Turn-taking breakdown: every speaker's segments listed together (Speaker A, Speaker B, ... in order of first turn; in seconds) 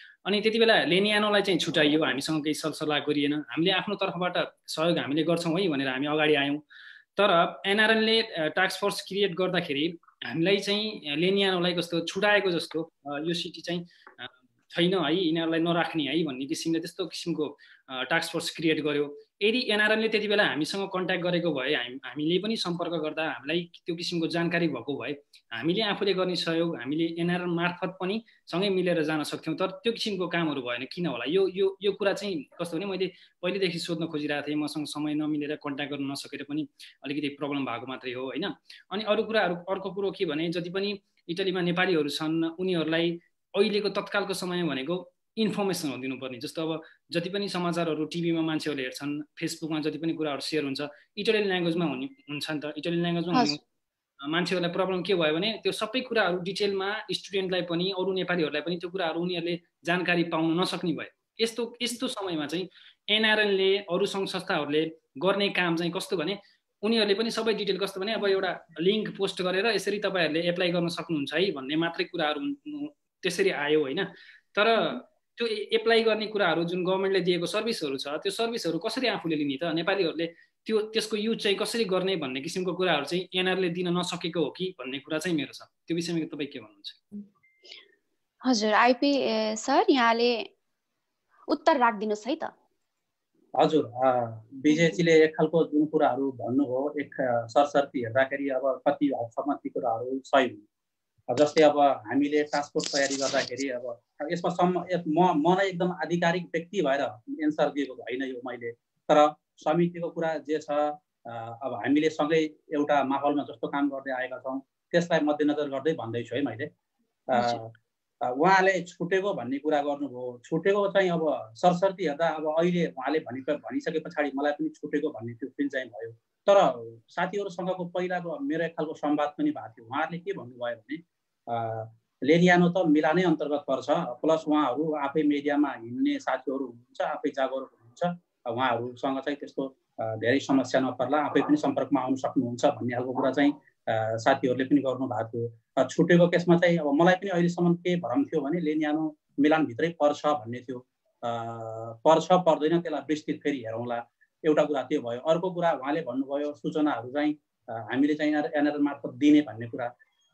Speaker A: 0.2-6.6, 7.2-53.6, 54.2-87.0
Speaker B: 53.3-53.6, 88.5-90.5, 91.5-92.5, 94.7-95.0, 117.3-117.6
Speaker C: 93.6-100.6, 101.3-116.7, 117.3-117.7, 118.2-159.9